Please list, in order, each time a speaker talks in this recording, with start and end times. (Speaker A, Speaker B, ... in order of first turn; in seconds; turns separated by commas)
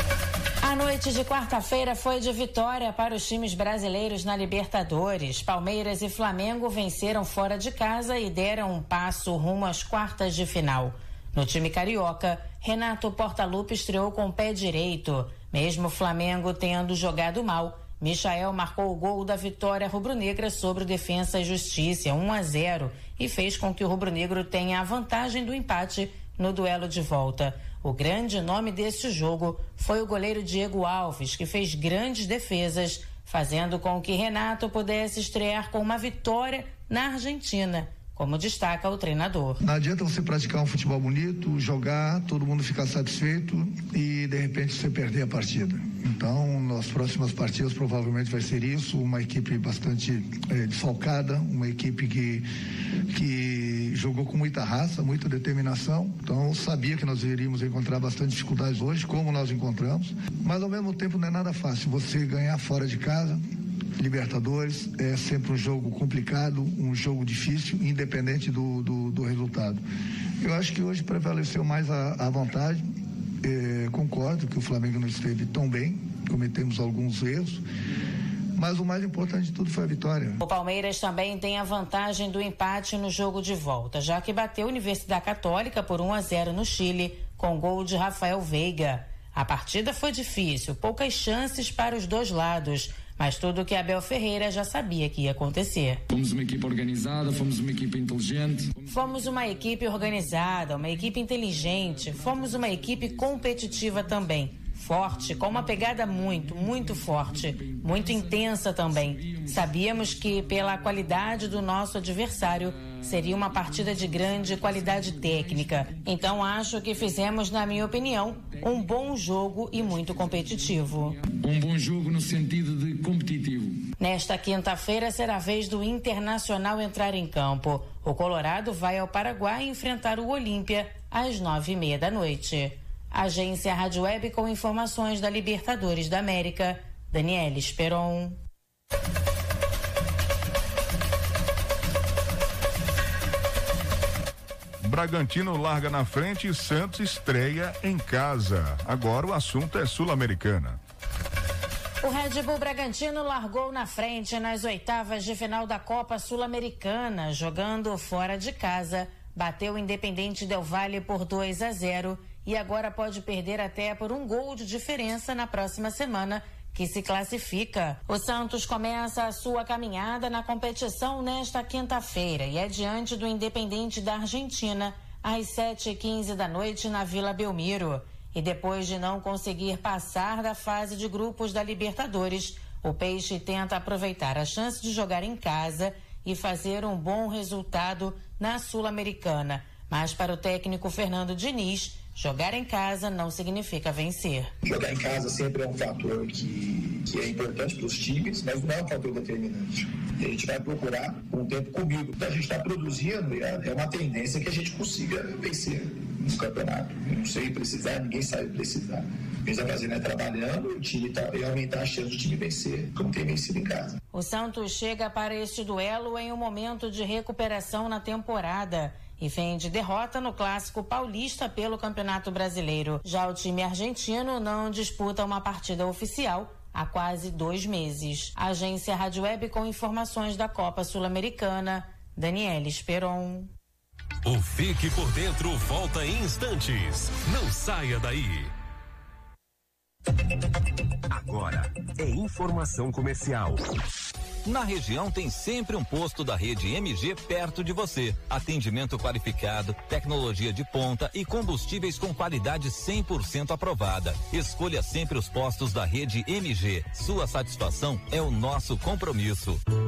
Speaker A: 0.6-39.6, Speaker B: 39.6-52.5, Speaker B: 53.1-63.4, Speaker B: 64.0-69.8, Speaker B: 70.4-72.9, Speaker B: 73.4-77.6, Speaker B: 78.5-80.4, Speaker A: 80.4-96.0, Speaker C: 96.1-99.0, Speaker A: 98.9-121.2, Speaker C: 107.6-108.1, Speaker C: 121.3-123.8, Speaker A: 124.0-138.4, Speaker D: 144.8-150.8, Speaker A: 152.0-194.5, Speaker E: 194.6-213.9, Speaker A: 214.1-233.5, Speaker F: 234.2-238.5, Speaker G: 241.1-243.7, Speaker H: 244.4-259.6